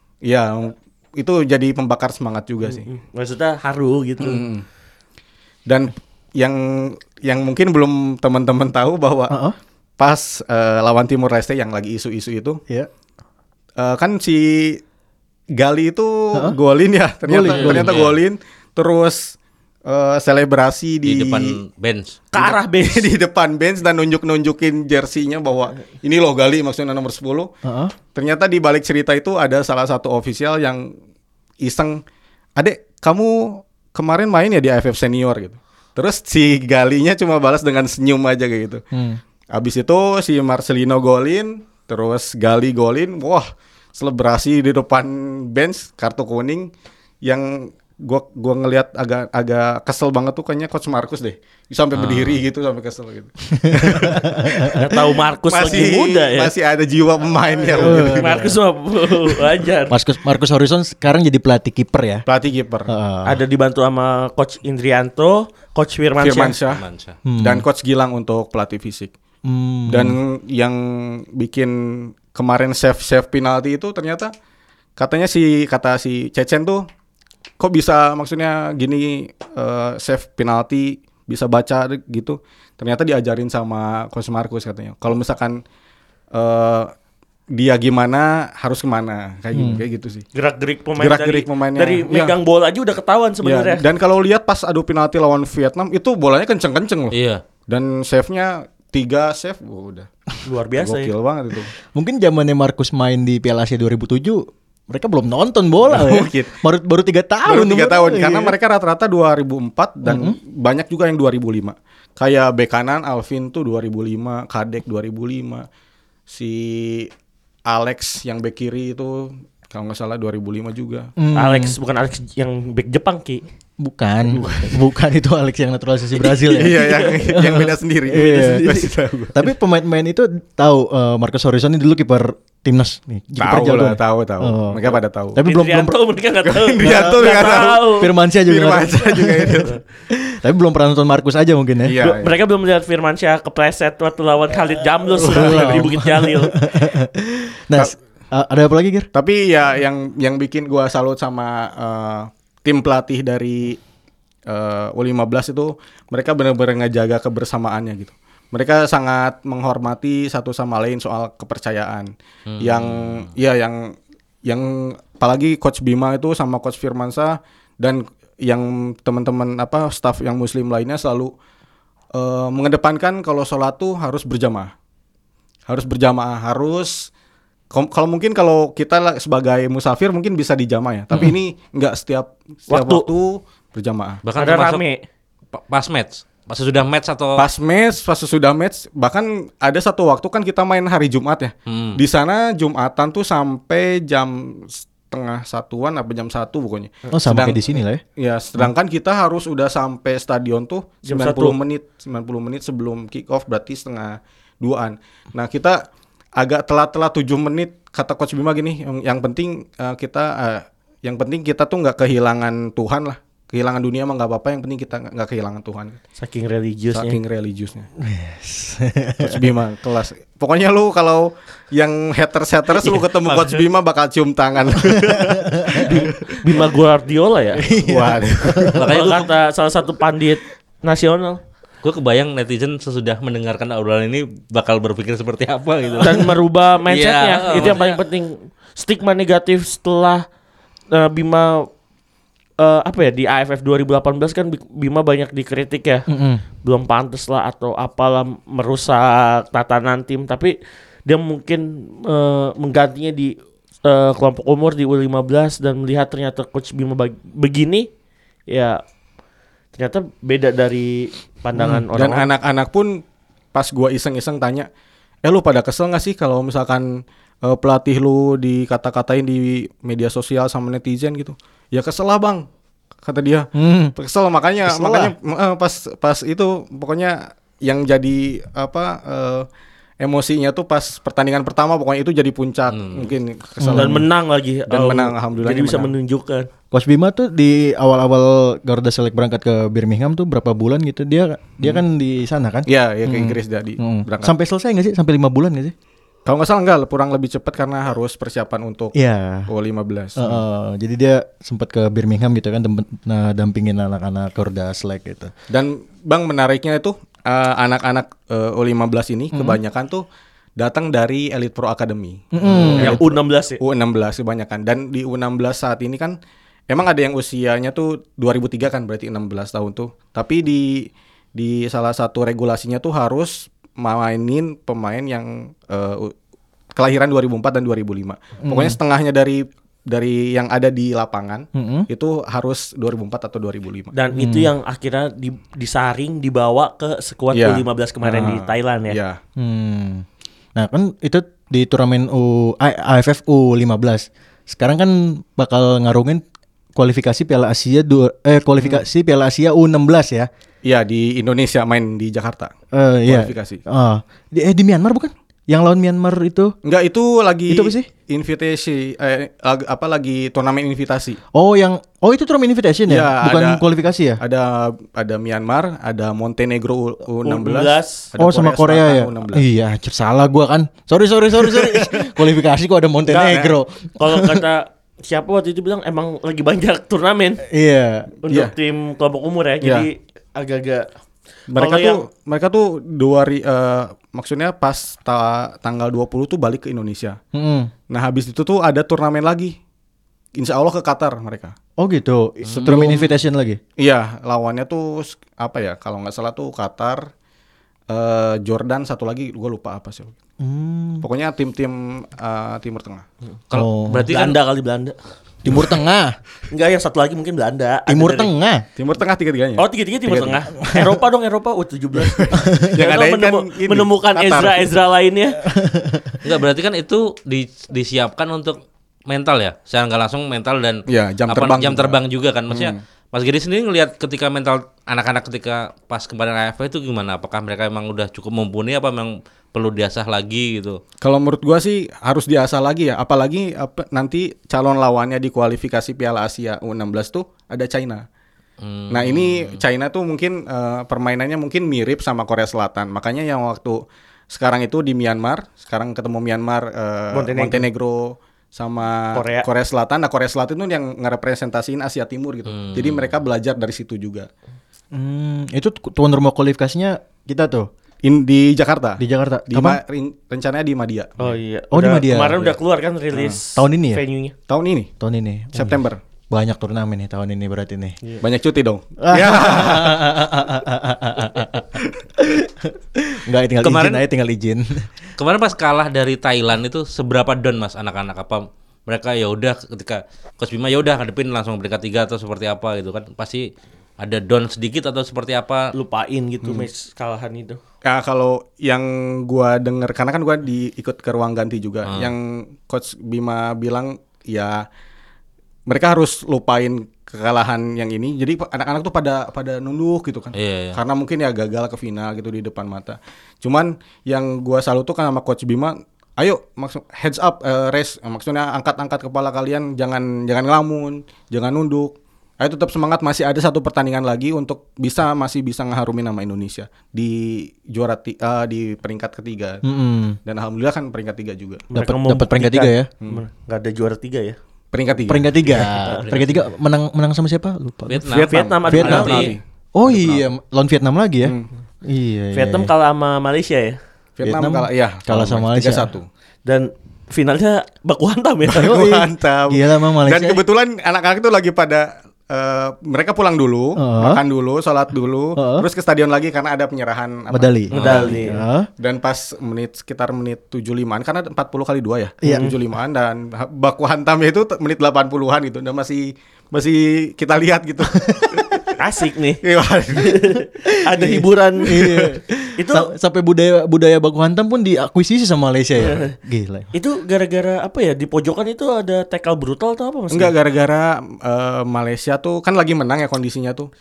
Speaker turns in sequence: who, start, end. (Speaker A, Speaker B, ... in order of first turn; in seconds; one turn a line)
Speaker A: 0.2-2.9
Speaker B: 2.7-4.4
Speaker A: 4.2-4.6
Speaker A: 5.7-9.4
Speaker C: 9.3-9.6
Speaker A: 10.0-12.6
Speaker A: 13.8-14.8
Speaker A: 15.5-21.6
Speaker C: 17.2-18.0
Speaker D: 17.4-18.2
Speaker D: 21.0-22.2
Speaker B: 22.3-23.1
Speaker A: 22.3-27.5
Speaker C: 27.6-27.9
Speaker A: 28.1-30.9
Speaker A: 31.6-32.0
Speaker A: 32.6-38.8
Speaker C: 38.9-39.2
Speaker A: 39.5-46.7
Speaker A: 47.2-58.5
Speaker D: 51.9-52.4
Speaker C: 53.7-54.7
Speaker B: 54.7-56.5
Speaker B: 57.7-59.9
Speaker C: 57.8-58.5
Speaker C: 59.9-62.2
Speaker A: 62.2-62.9
Speaker C: 62.9-63.4
Speaker B: 63.2-66.6
Speaker A: 66.2-66.8
Speaker D: 66.6-67.2
Speaker C: 67.2-67.7
Speaker A: 67.4-69.1
Speaker C: 69.4-70.2
Speaker A: 69.9-74.3
Speaker A: 75.0-76.9
Speaker A: 77.6-85.6
Speaker A: 86.3-86.9
Speaker A: 87.5-90.2
Speaker C: 89.5-89.8
Speaker B: 90.3-93.8
Speaker A: 91.0-92.3
Speaker A: 93.4-100.1
Speaker D: 97.1-97.4
Speaker B: 100.4-101.1
Speaker A: 100.8-101.7
Speaker C: 101.9-108.6
Speaker A: 105.8-106.6
Speaker A: 107.5-115.7
Speaker C: 110.0-110.4
Speaker A: 116.3-117.1
Speaker A: 117.7-121.1
Speaker C: 121.2-121.7
Speaker B: 121.3-123.4
Speaker C: 123.8-135.9
Speaker B: 124.4-124.7
Speaker A: 126.4-129.4
Speaker B: 126.8-127.1
Speaker B: 128.2-128.9
Speaker A: 133.4-135.4
Speaker B: 135.4-138.1
Speaker A: 136.4-139.8
Speaker C: 136.8-142.0
Speaker A: 141.8-142.3
Speaker B: 142.0-146.6
Speaker C: 145.2-149.1
Speaker A: 149.1-153.8
Speaker A: 154.5-171.3
Speaker D: 162.5-163.3
Speaker A: 172.1-174.7
Speaker A: 175.7-177.1
Speaker A: 177.7-184.2
Speaker B: 182.7-183.1
Speaker D: 184.2-184.8
Speaker B: 184.4-185.0
Speaker D: 185.5-187.4
Speaker A: 187.4-197.6
Speaker D: 191.7-192.0
Speaker C: 197.1-198.0
Speaker A: 198.2-205.8
Speaker B: 201.0-201.6
Speaker A: 206.4-216.0
Speaker B: 216.2-217.2
Speaker A: 216.9-217.9
Speaker C: 218.0-219.5
Speaker A: 219.2-226.6
Speaker C: 225.1-225.8
Speaker B: 225.7-227.7
Speaker C: 227.6-228.9
Speaker A: 227.8-228.8
Speaker D: 228.7-229.3
Speaker B: 228.8-231.4
Speaker D: 231.8-236.3
Speaker B: 236.0-240.2
Speaker D: 236.8-238.0
Speaker B: 240.9-241.7
Speaker B: 242.6-246.1
Speaker C: 246.1-246.4
Speaker B: 246.6-250.5
Speaker B: 251.1-257.9
Speaker B: 258.5-258.8
Speaker B: 259.7-262.3
Speaker C: 261.6-261.8
Speaker A: 261.9-264.7
Speaker A: 265.2-272.5
Speaker A: 273.0-279.5
Speaker C: 273.5-273.9
Speaker C: 274.6-275.1
Speaker A: 280.0-284.1
Speaker D: 282.7-283.1
Speaker C: 283.6-284.0
Speaker B: 283.7-286.5
Speaker A: 284.7-285.9
Speaker C: 286.7-295.7
Speaker A: 292.7-294.3
Speaker A: 296.2-298.9
Speaker C: 298.9-299.5
Speaker A: 299.5-300.4
Speaker C: 300.2-305.3
Speaker A: 305.5-310.0
Speaker C: 309.3-309.6
Speaker A: 310.6-316.2
Speaker C: 312.3-313.0
Speaker B: 312.7-313.6
Speaker A: 316.7-326.1
Speaker A: 326.7-333.9
Speaker C: 328.4-328.8
Speaker C: 331.5-331.9
Speaker B: 333.9-339.0
Speaker C: 334.1-334.5
Speaker A: 337.3-339.2
Speaker C: 339.4-346.2
Speaker C: 346.7-350.3
Speaker A: 350.6-352.5
Speaker C: 352.7-356.5
Speaker A: 353.1-353.6
Speaker A: 356.6-361.2
Speaker C: 357.5-357.9
Speaker C: 361.3-364.2
Speaker A: 362.9-363.6
Speaker A: 364.2-369.4
Speaker B: 367.2-368.1
Speaker C: 368.2-374.4
Speaker A: 371.4-372.2
Speaker A: 373.1-373.5
Speaker B: 373.9-377.4
Speaker C: 377.5-378.1
Speaker B: 378.2-380.9
Speaker A: 379.6-379.9
Speaker A: 381.5-387.2
Speaker B: 381.6-382.0
Speaker C: 387.3-387.7
Speaker A: 387.9-389.6
Speaker A: 390.4-391.5
Speaker C: 391.8-393.6
Speaker D: 392.4-393.0
Speaker A: 392.6-393.1
Speaker A: 393.8-397.1
Speaker A: 397.9-400.1
Speaker C: 400.4-401.1
Speaker A: 401.0-403.0
Speaker D: 403.5-404.4
Speaker C: 403.5-404.1
Speaker B: 404.0-404.9
Speaker C: 405.4-406.1
Speaker B: 406.5-408.3
Speaker C: 407.9-408.6
Speaker A: 408.8-410.3
Speaker B: 409.6-415.4
Speaker C: 410.5-410.9
Speaker A: 412.2-414.7
Speaker C: 412.3-412.8
Speaker C: 415.4-416.2
Speaker D: 416.2-430.8
Speaker A: 420.9-422.0
Speaker A: 422.5-422.8
Speaker A: 431.0-438.1
Speaker D: 438.6-439.6
Speaker A: 438.9-454.3
Speaker B: 447.1-447.6
Speaker B: 449.1-449.5
Speaker D: 452.5-453.1
Speaker C: 454.9-457.7
Speaker A: 458.0-461.1
Speaker C: 459.0-459.8
Speaker B: 461.2-464.3
Speaker C: 461.7-462.6
Speaker C: 463.5-464.0
Speaker A: 464.5-464.9
Speaker C: 465.0-468.0
Speaker A: 465.5-466.0
Speaker A: 468.2-470.3
Speaker C: 469.0-474.9
Speaker D: 473.6-474.0
Speaker D: 475.2-485.7
Speaker B: 485.7-487.6
Speaker A: 487.8-494.7
Speaker A: 495.6-519.6
Speaker D: 500.3-500.8
Speaker C: 519.6-520.2
Speaker A: 520.2-521.6
Speaker B: 521.7-524.4
Speaker C: 521.7-522.9
Speaker A: 524.7-525.3
Speaker C: 525.1-528.1
Speaker D: 525.5-526.4
Speaker D: 527.9-529.4
Speaker B: 528.1-529.4
Speaker A: 528.3-530.2
Speaker C: 528.7-532.7
Speaker A: 531.2-531.5
Speaker B: 532.3-533.8
Speaker A: 534.2-536.1
Speaker C: 534.2-535.9
Speaker B: 536.5-538.8
Speaker A: 538.5-558.7
Speaker C: 538.5-540.4
Speaker C: 543.8-544.2
Speaker C: 545.4-545.6
Speaker C: 547.3-548.7
Speaker B: 547.7-548.4
Speaker D: 547.7-548.1
Speaker C: 552.2-552.5
Speaker B: 552.2-552.5
Speaker C: 558.1-558.4
Speaker B: 558.8-559.4
Speaker A: 559.4-560.3
Speaker B: 559.9-562.0
Speaker C: 560.9-566.7
Speaker B: 562.6-562.9
Speaker B: 565.8-566.1
Speaker B: 566.7-570.3
Speaker A: 570.1-573.7